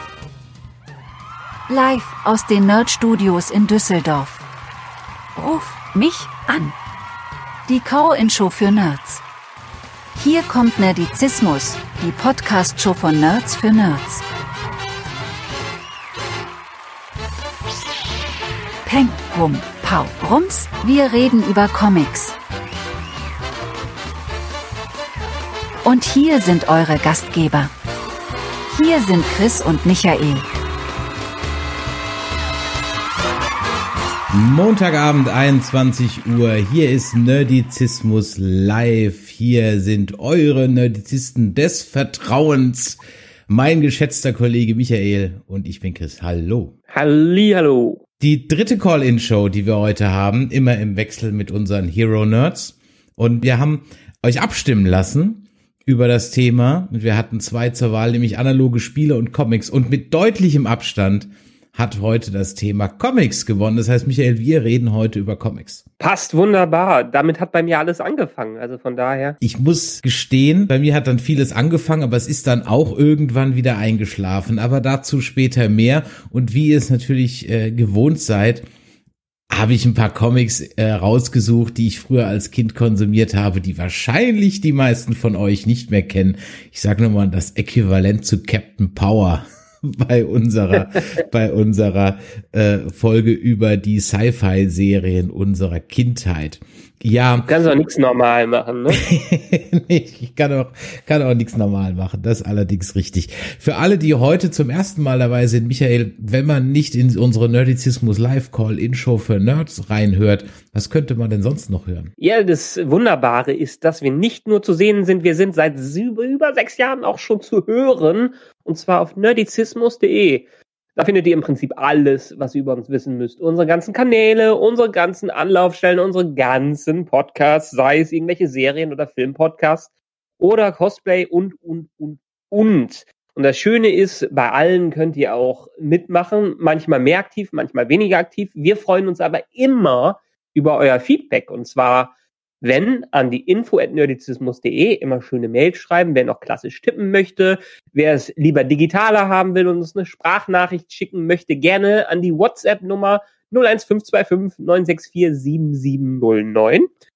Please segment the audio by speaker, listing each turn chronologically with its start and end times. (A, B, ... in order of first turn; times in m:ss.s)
0:01.7-0:04.4 A
0:05.4-0:06.8 A
0:07.7-0:09.2 A
0:10.2-0:14.2 A
0:18.8-0:22.4 A
0:25.8-0:27.7 A
0:28.7-0:30.5 A
0:34.3-0:46.7 B
0:46.9-0:48.0 C
0:48.2-1:05.8 B
1:06.0-1:09.4 C
1:09.4-1:18.7 B
1:19.5-1:37.5 B
1:37.4-1:39.0 C
1:39.0-1:52.1 B
1:52.2-2:00.4 C
2:01.0-2:36.9 C